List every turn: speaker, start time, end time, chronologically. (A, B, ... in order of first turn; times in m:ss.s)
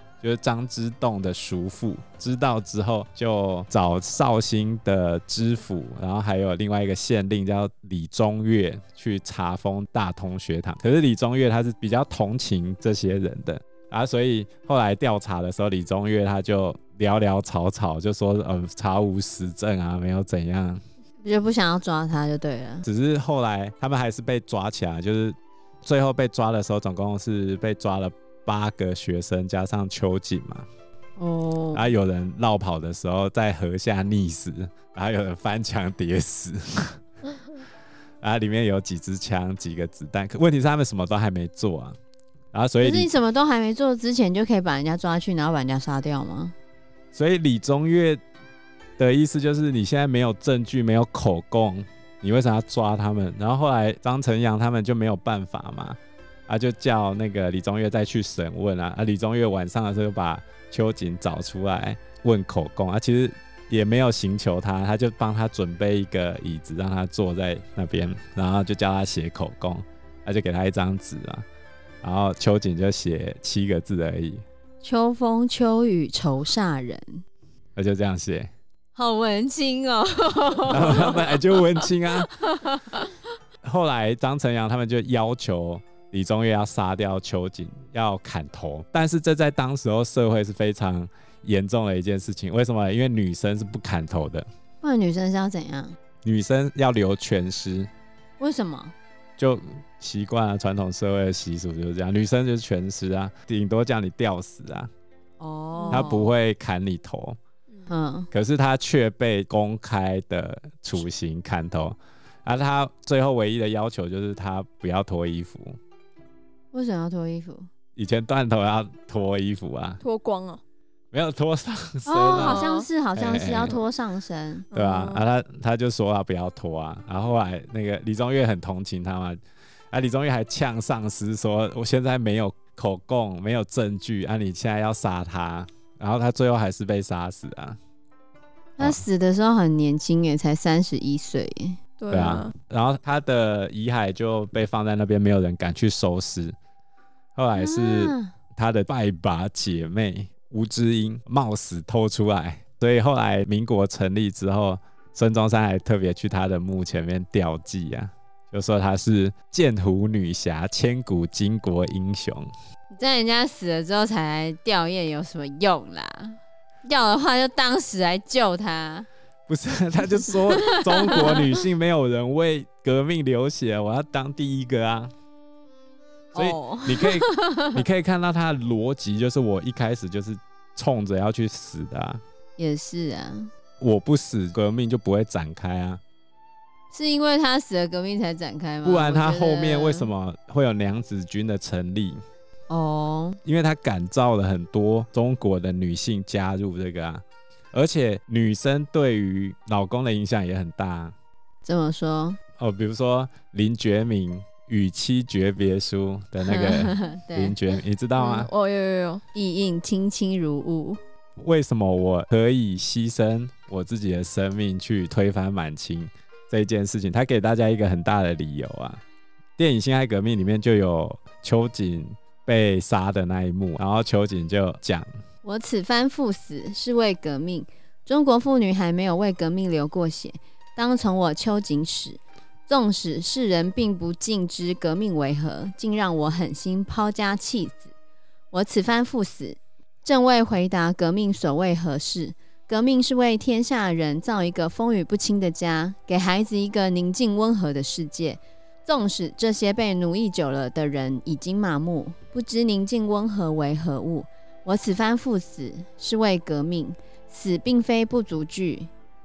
0:00.2-0:20.8 A
0:21.2-0:22.8 B
0:22.8-0:30.6 A
0:31.2-0:31.9 B
0:31.7-0:37.0 A
0:38.2-0:42.0 A
0:42.5-0:43.1 A
0:42.8-0:46.5 B
0:47.1-0:48.2 A
0:49.0-1:11.4 A
1:12.0-1:14.4 A
1:14.8-1:17.2 B
1:17.8-1:18.5 A
1:18.9-1:23.1 B
1:20.7-1:22.3 A
1:23.6-1:34.5 A
1:34.8-1:36.0 B
1:36.2-1:37.9 A
1:38.4-1:38.9 B
1:39.4-1:44.9 A
1:45.4-1:46.3 B
1:45.8-1:46.1 C
1:45.9-1:47.4 A
1:47.9-1:48.3 B
1:48.3-1:55.8 A
1:56.7-1:57.7 B
1:58.0-2:00.0 A
2:00.0-2:00.6 C
2:01.1-2:02.6 A
2:02.0-2:04.7 B
2:02.3-2:02.9 C
2:03.1-2:03.8 A
2:04.7-2:05.2 C
2:04.7-2:09.4 A
2:09.9-2:17.8 A
2:18.8-2:21.8 B
2:22.0-2:22.5 C
2:22.1-2:26.6 A
2:27.3-2:42.5 A
2:27.5-2:28.3 B
2:42.9-2:49.1 B
2:49.5-2:55.1 A
2:50.5-2:51.5 B
2:56.3-2:57.8 B
2:56.3-3:02.2 A
3:02.6-3:03.5 B
3:03.8-3:06.0 A
3:06.9-3:10.1 B
3:08.8-3:12.2 A
3:12.7-3:13.4 B
3:13.4-3:21.1 A
3:21.6-3:22.4 B
3:22.6-3:28.5 A
3:26.4-3:27.6 B
3:28.2-3:29.2 C
3:29.3-3:31.0 B
3:31.4-3:39.0 A
3:39.6-3:45.1 A
3:45.4-3:57.9 B
3:58.5-4:18.9 B